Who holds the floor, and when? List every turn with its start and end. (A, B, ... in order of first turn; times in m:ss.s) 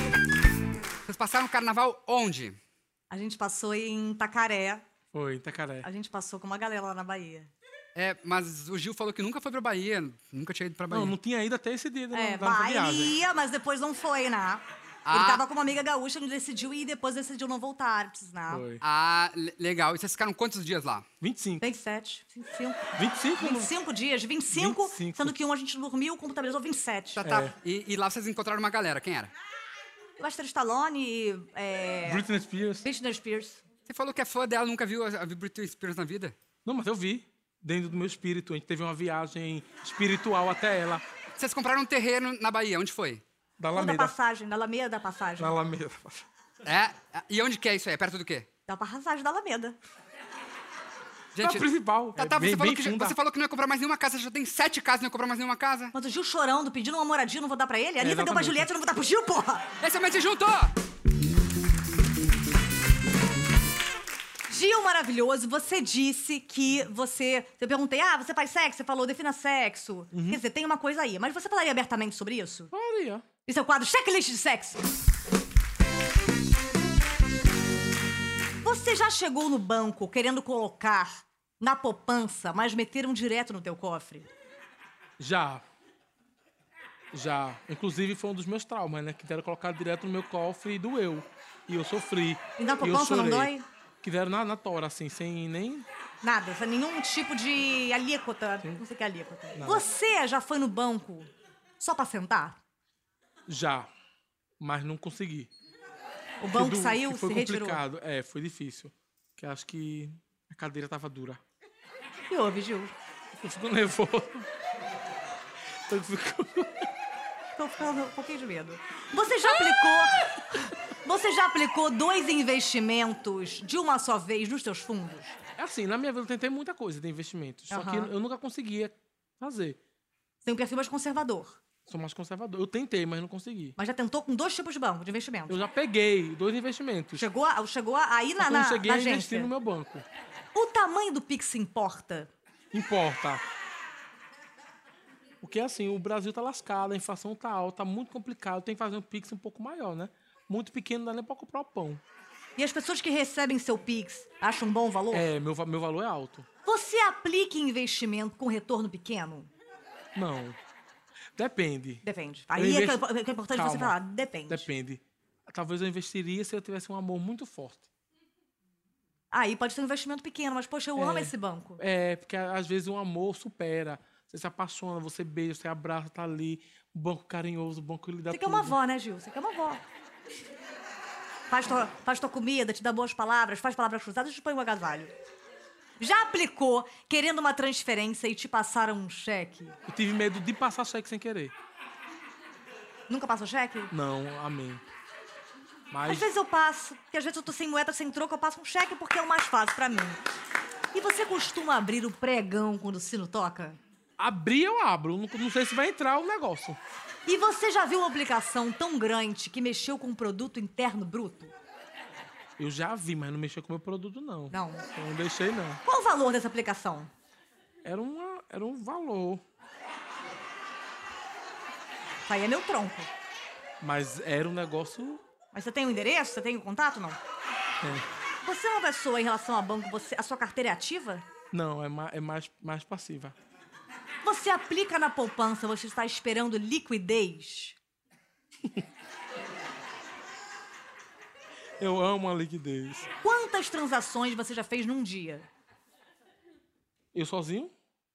0:01.0-0:02.6 A
0:03.1-0:04.8 B
0:05.1-0:05.9 C
0:05.8-0:07.5 B
0:07.9-0:11.1 A
0:10.9-0:13.2 C
0:12.1-0:18.6 B
0:15.1-0:15.4 A
0:18.5-0:18.8 C
0:18.8-0:21.0 A
0:21.2-0:21.6 C
0:21.6-0:27.2 B
0:23.0-0:23.7 C
0:24.5-0:25.4 C
0:27.2-0:29.3 A
0:27.2-0:27.5 C
0:30.2-0:32.2 B
0:32.0-0:32.9 C
0:32.8-0:33.6 B
0:33.8-0:36.3 A
0:36.6-0:41.0 C
0:41.4-0:43.2 A
0:43.6-0:44.1 C
0:43.7-0:45.6 B
0:45.4-0:46.2 C
0:46.6-0:48.5 A
0:48.7-0:49.8 B
0:51.3-0:55.9 A
0:51.4-0:53.2 C
0:55.9-0:59.6 B
0:58.0-0:58.7 C
0:59.8-1:00.7 A
1:04.5-1:12.7 B
1:10.1-1:10.4 C
1:12.7-1:13.2 C
1:13.4-1:14.8 B
1:18.6-1:24.3 B
1:25.2-1:25.6 C
1:27.1-1:35.9 C
1:32.6-1:33.6 B
1:36.2-1:42.6 B
1:39.5-1:39.8 C
1:43.5-1:43.9 C
1:44.6-1:45.5 C
1:46.4-1:47.8 B
1:46.5-1:51.4 C
1:52.3-1:52.9 B
1:53.4-1:54.5 C
1:55.8-1:56.9 C
1:57.6-2:05.4 B
2:05.6-2:09.8 C
2:07.7-2:08.1 B
2:10.4-2:11.6 B
2:11.8-2:13.8 C
2:13.8-2:15.6 B
2:15.5-2:17.3 C
2:17.1-2:19.5 B
2:18.4-2:20.0 C
2:20.5-2:22.3 B
2:22.7-2:23.4 C
2:25.4-2:32.0 C
2:32.6-2:35.3 B
2:35.1-2:36.5 C
2:36.6-2:39.5 B
2:40.1-2:40.6 C
2:41.4-2:44.0 C
2:42.0-2:44.7 B
2:44.5-2:47.9 C
2:49.3-2:51.8 B
2:51.0-2:58.8 C
2:58.3-2:59.8 B
3:01.5-3:05.1 B
3:06.0-3:09.8 B
3:09.9-3:11.5 C
3:13.1-3:13.9 B
3:13.9-3:14.8 C
3:15.9-3:16.3 C
3:16.0-3:20.2 B
3:20.9-3:23.8 B
3:24.2-3:26.8 C
3:27.2-3:31.5 B
3:32.6-3:35.8 C
3:34.5-3:34.8 B
3:35.8-3:37.1 B
3:37.8-3:39.4 C
3:42.2-3:43.1 B
3:43.8-3:45.2 C
3:45.5-3:47.2 B
3:47.8-3:48.0 C
3:48.4-3:51.2 B
3:51.5-3:53.4 C
3:54.2-3:57.8 B
4:01.8-4:03.1 C
4:03.2-4:05.5 B
4:07.1-4:07.7 C